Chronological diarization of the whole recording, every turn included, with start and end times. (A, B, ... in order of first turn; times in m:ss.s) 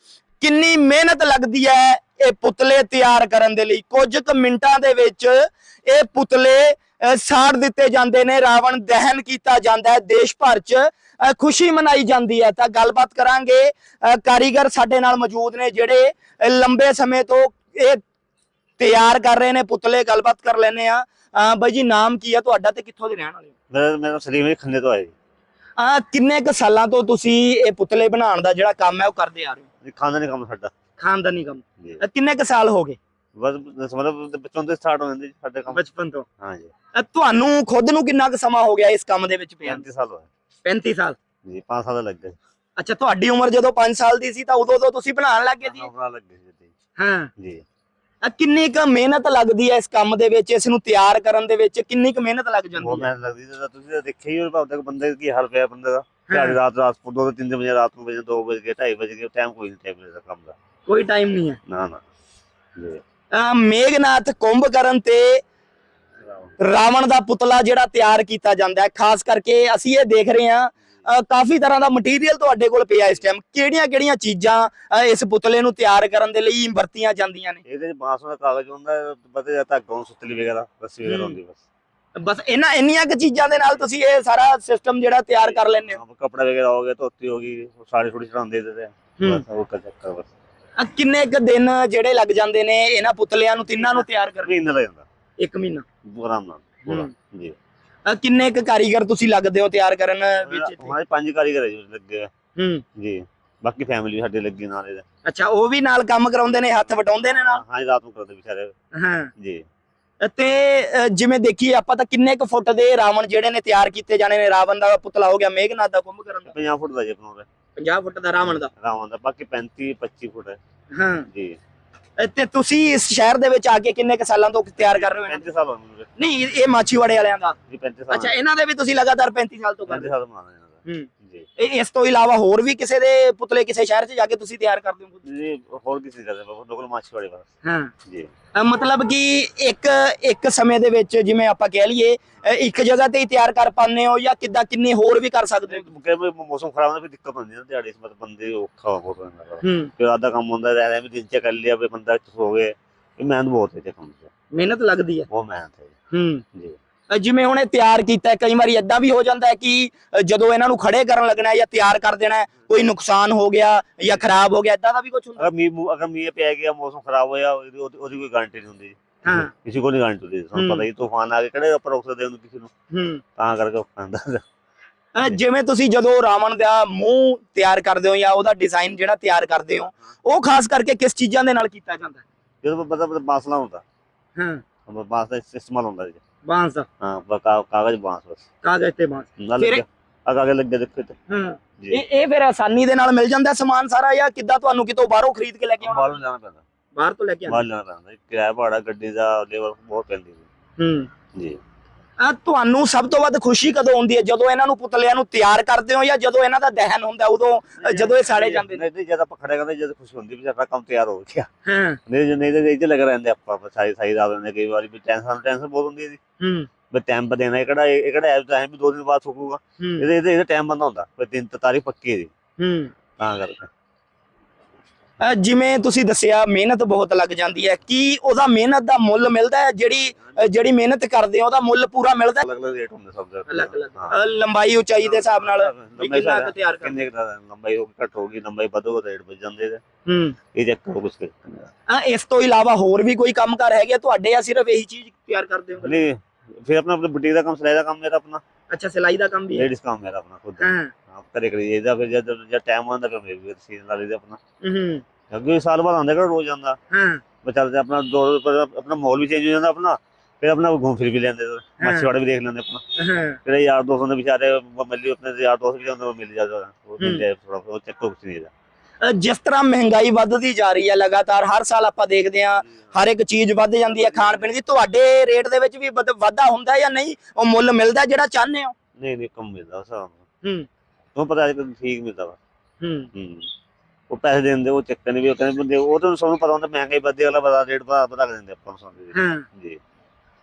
0:00.4-0:18.0 A
0:18.8-0:23.5 A
0:23.7-0:25.1 B
0:25.8-0:29.7 A
0:29.8-0:30.7 B
0:31.0-0:33.0 A
0:33.4-0:35.8 B
0:35.7-0:36.2 A
0:36.4-0:36.7 B
0:37.0-0:39.9 A
0:39.6-0:40.3 B
0:40.6-0:41.2 A
0:41.4-0:42.4 B
0:42.8-0:45.9 A
0:45.6-0:46.7 B
0:47.0-0:47.3 A
0:47.4-0:47.6 B
0:48.2-0:53.1 A
0:52.8-1:00.6 B
0:56.3-0:56.6 A
1:00.9-1:01.6 A
1:01.7-1:02.0 B
1:03.3-1:05.4 A
1:06.2-1:06.5 B
1:06.6-1:17.6 A
1:17.7-1:21.6 B
1:21.0-1:21.4 A
1:22.2-1:26.0 A
1:25.4-1:30.3 B
1:29.2-1:29.4 A
1:30.8-1:34.5 A
1:33.8-1:35.1 B
1:35.4-1:35.8 A
1:36.0-1:37.6 B
1:36.9-1:37.1 A
1:38.1-1:41.0 A
1:40.4-1:42.3 B
1:42.6-1:42.8 A
1:43.0-1:45.0 B
1:45.2-1:47.6 A
1:47.3-1:48.7 B
1:49.0-1:49.3 A
1:49.4-1:49.6 B
1:50.2-1:56.5 A
1:56.5-1:57.5 B
1:57.8-1:58.7 A
1:58.6-2:00.6 B
2:01.0-2:01.3 A
2:01.3-2:01.6 B
2:02.2-2:05.5 A
2:04.8-2:06.1 B
2:06.2-2:07.6 A
2:07.7-2:08.3 B
2:08.1-2:10.1 A
2:09.9-2:11.5 B
2:10.9-2:15.2 A
2:15.2-2:17.5 B
2:17.6-2:17.9 A
2:18.6-2:25.9 A
2:25.7-2:34.3 B
2:29.6-2:29.9 A
2:34.5-2:35.3 A
2:35.3-2:35.9 B
2:36.1-2:36.4 A
2:37.1-2:45.5 A
2:45.4-2:52.7 B
2:49.2-2:49.5 A
2:50.5-2:50.9 A
2:52.9-2:53.2 A
2:53.4-2:54.4 B
2:55.2-3:02.2 A
3:02.6-3:03.8 B
3:04.4-3:04.6 A
3:04.9-3:06.2 B
3:06.4-3:06.9 A
3:07.0-3:08.4 B
3:08.6-3:09.8 A
3:09.4-3:11.2 B
3:11.3-3:16.2 A
3:15.8-3:16.6 B
3:17.0-3:17.6 A
3:17.5-3:20.5 B
3:20.8-3:21.1 A
3:22.2-3:28.8 A
3:27.8-3:31.5 B
3:31.7-3:32.0 A
3:32.1-3:36.2 B
3:36.4-3:36.7 A
3:36.9-3:42.3 B
3:39.8-3:40.1 A
3:42.6-3:42.9 A
3:43.2-3:43.7 B
3:45.2-3:52.4 A
3:52.4-3:54.2 B
3:53.5-3:57.0 A
3:55.0-3:59.8 B
4:00.1-4:00.4 A
4:00.5-4:01.7 B
4:01.9-4:06.0 A
4:05.8-4:08.4 B
4:08.7-4:09.7 A
4:09.5-4:14.4 B
4:10.6-4:10.9 A
4:14.6-4:15.0 A
4:15.3-4:16.8 B
4:16.9-4:17.2 A
4:17.4-4:22.8 B
4:21.8-4:22.1 A
4:23.0-4:23.4 A
4:23.4-4:28.5 B
4:27.0-4:27.2 A
4:29.0-4:38.8 A
4:34.2-4:34.4 B
4:39.0-4:40.2 B
4:40.4-4:40.7 A
4:41.2-4:42.4 B
4:42.8-4:43.1 A
4:43.1-4:43.5 B
4:44.1-4:49.8 B
4:49.1-4:49.4 A